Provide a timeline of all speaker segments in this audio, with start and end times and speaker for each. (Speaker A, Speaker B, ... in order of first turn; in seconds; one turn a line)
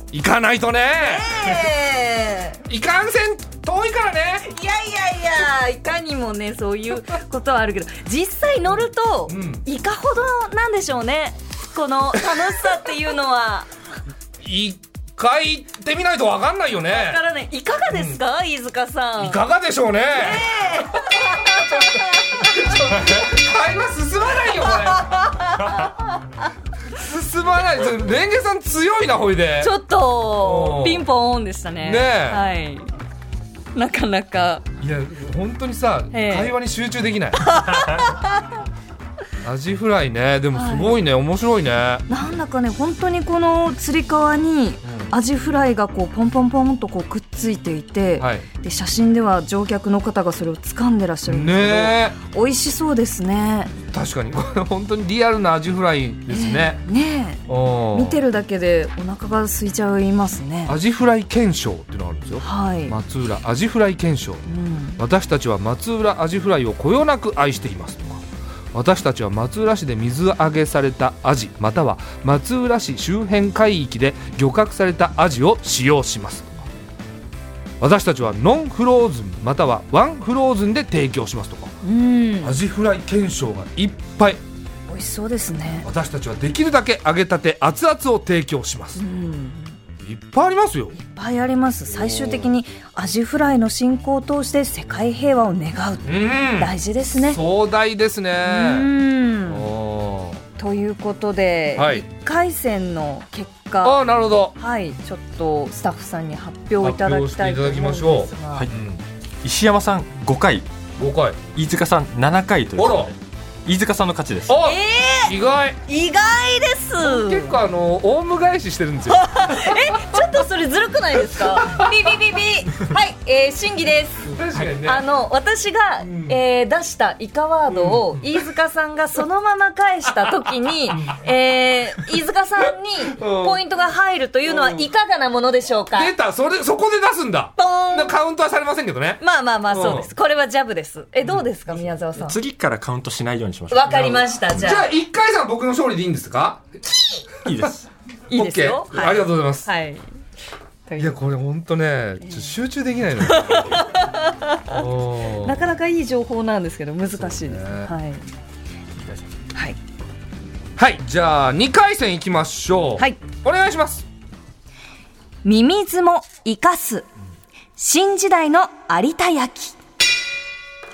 Speaker A: 0.1-1.4
Speaker B: 1.0-2.6
Speaker A: 2.7-4.5
Speaker B: 4.4-13.7
Speaker A: 9.3-9.6
Speaker A: 14.4-17.2
Speaker B: 16.9-19.4
Speaker A: 17.9-18.2
Speaker A: 19.2-20.5
Speaker B: 20.1-22.7
Speaker A: 21.4-25.2
Speaker B: 24.8-26.2
Speaker A: 26.9-29.8
Speaker B: 29.6-32.9
Speaker A: 30.4-31.1
Speaker A: 31.8-32.5
Speaker B: 33.8-34.7
Speaker A: 34.8-37.5
Speaker B: 36.1-36.5
Speaker B: 37.4-38.5
Speaker A: 39.4-42.1
Speaker B: 40.5-41.0
Speaker B: 42.1-53.7
Speaker A: 44.8-45.1
Speaker A: 48.2-48.5
Speaker A: 51.3-52.2
Speaker A: 53.9-56.8
Speaker B: 56.3-60.8
Speaker A: 57.5-58.2
Speaker A: 60.7-64.5
Speaker B: 62.4-63.0
Speaker B: 64.5-65.0
Speaker A: 65.0-76.6
Speaker A: 77.8-81.8
Speaker B: 81.8-82.6
Speaker A: 82.4-84.4
Speaker B: 84.9-85.9
Speaker A: 85.8-89.0
Speaker B: 89.0-89.8
Speaker A: 90.0-91.0
Speaker B: 91.0-97.4
Speaker A: 91.9-92.5
Speaker A: 96.0-98.9
Speaker B: 98.4-99.7
Speaker A: 99.5-100.4
Speaker B: 100.6-104.0
Speaker A: 101.8-102.0
Speaker A: 103.8-104.6
Speaker B: 104.6-108.7
Speaker A: 106.8-109.0
Speaker C: 109.4-110.7
Speaker A: 111.0-111.4
Speaker C: 111.5-114.5
Speaker A: 112.8-113.1
Speaker A: 114.5-115.8
Speaker B: 114.6-115.3
Speaker B: 115.9-117.6
Speaker A: 117.0-120.2
Speaker B: 119.1-136.1
Speaker A: 121.4-121.9
Speaker A: 124.2-125.0
Speaker A: 126.0-126.4
Speaker A: 127.7-128.3
Speaker A: 133.1-133.6
Speaker A: 134.5-134.9
Speaker A: 135.9-140.1
Speaker B: 137.6-138.2
Speaker B: 139.2-142.4
Speaker C: 142.2-144.6
Speaker B: 143.7-144.9
Speaker A: 144.0-146.7
Speaker C: 147.4-147.9
Speaker B: 148.3-150.1
Speaker A: 148.3-149.7
Speaker B: 150.9-151.2
Speaker A: 151.0-153.8
Speaker B: 152.2-152.5
Speaker B: 153.3-154.8
Speaker A: 154.7-155.7
Speaker B: 155.4-158.2
Speaker A: 157.1-157.9
Speaker A: 160.8-164.1
Speaker B: 165.4-167.1
Speaker B: 167.8-169.8